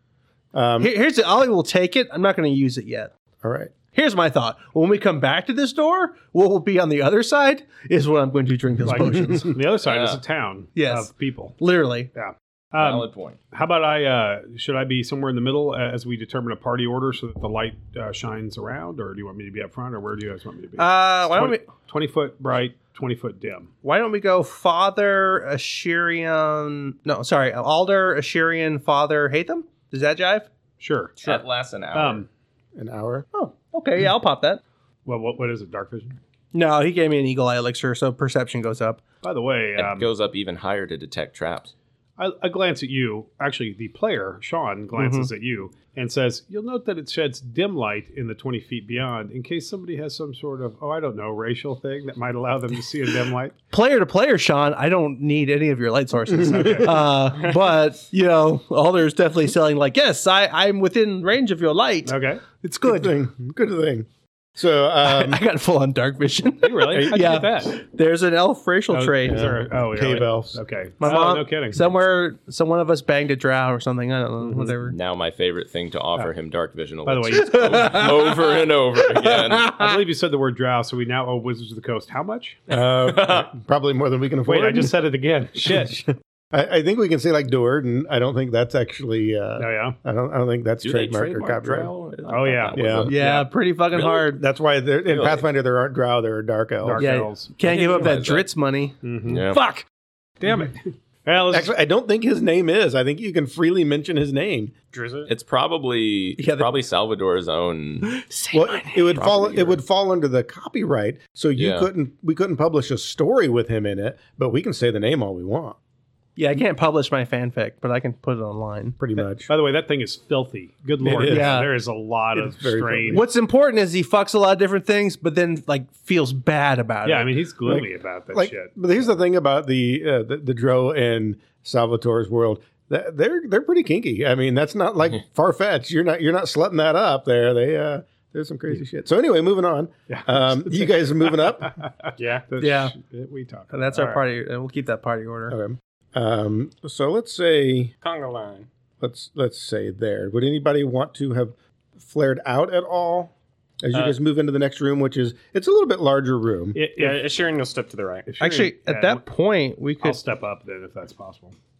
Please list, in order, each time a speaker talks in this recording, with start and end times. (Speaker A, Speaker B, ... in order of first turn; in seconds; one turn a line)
Speaker A: 0.5-0.9
Speaker B: 0.8-3.1
Speaker A: 3.4-3.7
Speaker B: 3.9-9.5
Speaker C: 8.8-11.6
Speaker A: 9.2-9.4
Speaker D: 9.8-10.2
Speaker B: 10.8-12.1
Speaker C: 12.1-23.7
Speaker D: 12.8-13.4
Speaker B: 20.8-21.7
Speaker B: 23.8-30.5
Speaker C: 30.8-32.3
Speaker D: 31.2-32.3
Speaker A: 32.8-33.3
Speaker B: 33.3-34.6
Speaker C: 35.1-36.2
Speaker B: 36.5-39.0
Speaker C: 39.2-40.1
Speaker D: 39.8-41.7
Speaker C: 42.2-53.6
Speaker B: 45.0-45.3
Speaker B: 53.7-63.1
Speaker A: 56.3-56.8
Speaker C: 56.5-57.0
Speaker E: 56.5-57.6
Speaker C: 62.0-62.5
Speaker A: 62.9-65.4
Speaker B: 65.0-69.5
Speaker C: 66.6-67.8
Speaker A: 67.0-67.3
Speaker C: 68.9-71.9
Speaker A: 69.3-70.6
Speaker B: 71.0-75.0
Speaker C: 74.4-74.8
Speaker D: 74.9-79.8
Speaker C: 77.0-78.1
Speaker B: 77.5-78.3
Speaker B: 79.3-79.9
Speaker C: 79.7-82.7
Speaker A: 82.7-85.0
Speaker C: 84.5-86.1
Speaker A: 85.5-91.9
Speaker C: 89.6-90.0
Speaker D: 90.8-93.4
Speaker C: 92.3-93.5
Speaker A: 92.7-93.2
Speaker B: 93.1-94.4
Speaker A: 94.0-97.1
Speaker D: 95.1-95.5
Speaker C: 96.8-98.1
Speaker B: 97.0-99.0
Speaker D: 97.6-98.5
Speaker C: 99.0-99.5
Speaker D: 99.3-99.6
Speaker B: 99.5-99.8
Speaker B: 100.4-100.7
Speaker C: 100.4-101.7
Speaker A: 101.5-104.7
Speaker E: 104.9-105.3
Speaker D: 105.3-108.1
Speaker B: 106.4-106.7
Speaker B: 108.0-109.3
Speaker A: 108.5-115.8
Speaker D: 109.1-109.8
Speaker D: 111.6-111.9
Speaker B: 116.4-119.0
Speaker A: 119.0-119.5
Speaker C: 119.5-123.3
Speaker A: 121.0-121.6
Speaker B: 121.1-121.7
Speaker A: 122.3-123.2
Speaker B: 123.1-127.3
Speaker C: 127.0-128.8
Speaker A: 127.7-141.8
Speaker C: 140.1-144.2
Speaker E: 142.2-142.5
Speaker B: 142.6-142.9
Speaker B: 143.7-145.6
Speaker A: 145.5-147.9
Speaker E: 148.0-148.7
Speaker A: 149.0-156.8
Speaker C: 156.8-157.3
Speaker E: 157.0-158.3
Speaker C: 158.3-159.2
Speaker B: 158.4-160.2
Speaker C: 160.0-161.6